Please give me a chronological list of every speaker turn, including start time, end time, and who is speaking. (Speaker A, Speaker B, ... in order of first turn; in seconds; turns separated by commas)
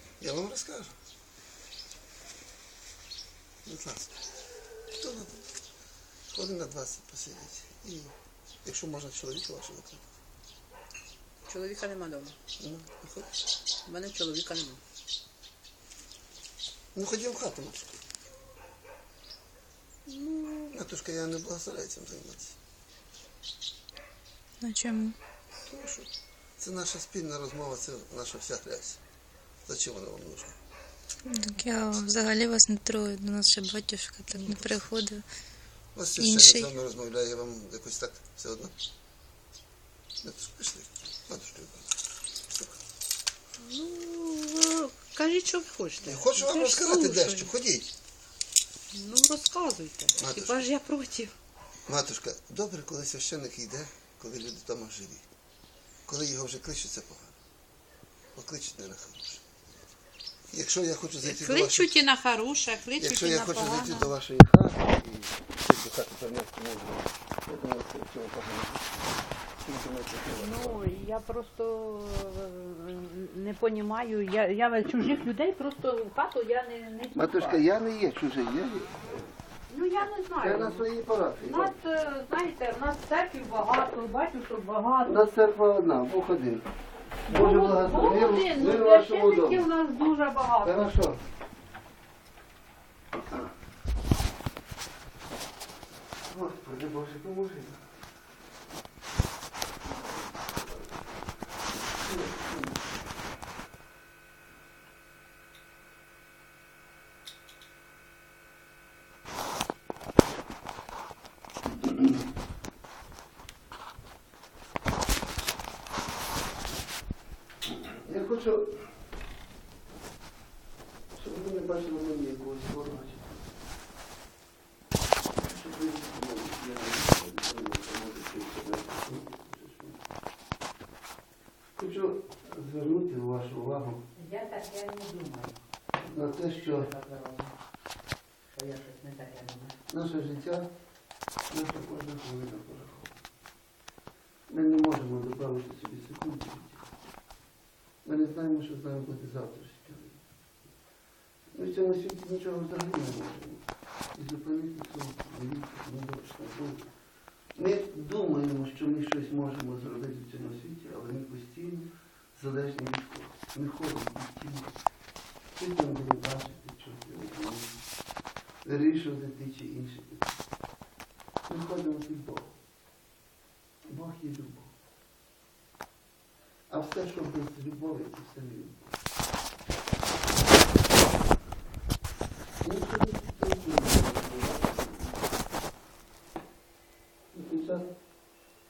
Speaker A: 0.2-1.0, Speaker A: 3.6-4.1, Speaker A: 4.9-5.5, Speaker A: 6.3-10.0, Speaker B: 11.5-12.4, Speaker A: 12.6-13.3, Speaker B: 13.9-14.8, Speaker A: 16.9-17.9, Speaker A: 20.4-22.6, Speaker C: 24.6-25.2, Speaker A: 25.7-29.0, Speaker A: 29.7-30.6, Speaker C: 31.3-35.2, Speaker A: 36.0-38.8, Speaker C: 36.2-36.7, Speaker A: 40.2-42.0, Speaker B: 43.6-47.5, Speaker A: 46.0-48.0, Speaker B: 48.9-51.3, Speaker A: 50.2-50.7, Speaker A: 51.9-55.2, Speaker A: 56.1-57.4, Speaker A: 58.4-59.5, Speaker A: 60.5-61.9, Speaker B: 61.2-64.1, Speaker A: 63.0-70.8, Speaker B: 70.3-77.6, Speaker A: 77.1-79.3, Speaker B: 79.7-80.9, Speaker A: 80.4-81.7, Speaker B: 81.5-85.2, Speaker A: 85.0-86.7, Speaker A: 87.3-89.7, Speaker B: 87.3-90.9, Speaker A: 90.6-91.2, Speaker A: 96.3-97.9, Speaker A: 99.8-101.1, Speaker A: 101.7-103.0, Speaker A: 118.0-118.9, Speaker A: 121.1-123.6, Speaker A: 125.3-130.0, Speaker A: 131.8-134.0, Speaker B: 134.2-135.6, Speaker A: 136.0-136.9, Speaker B: 136.6-137.5, Speaker B: 138.5-139.8, Speaker A: 139.9-140.7, Speaker A: 141.5-143.2, Speaker A: 144.5-146.9, Speaker A: 148.0-150.2, Speaker A: 151.5-153.6, Speaker A: 154.1-156.9, Speaker A: 157.6-164.8, Speaker A: 165.6-167.8, Speaker A: 168.6-170.3, Speaker A: 171.5-172.5, Speaker A: 173.9-174.7, Speaker A: 176.7-179.0, Speaker A: 182.6-185.3, Speaker A: 187.3-187.9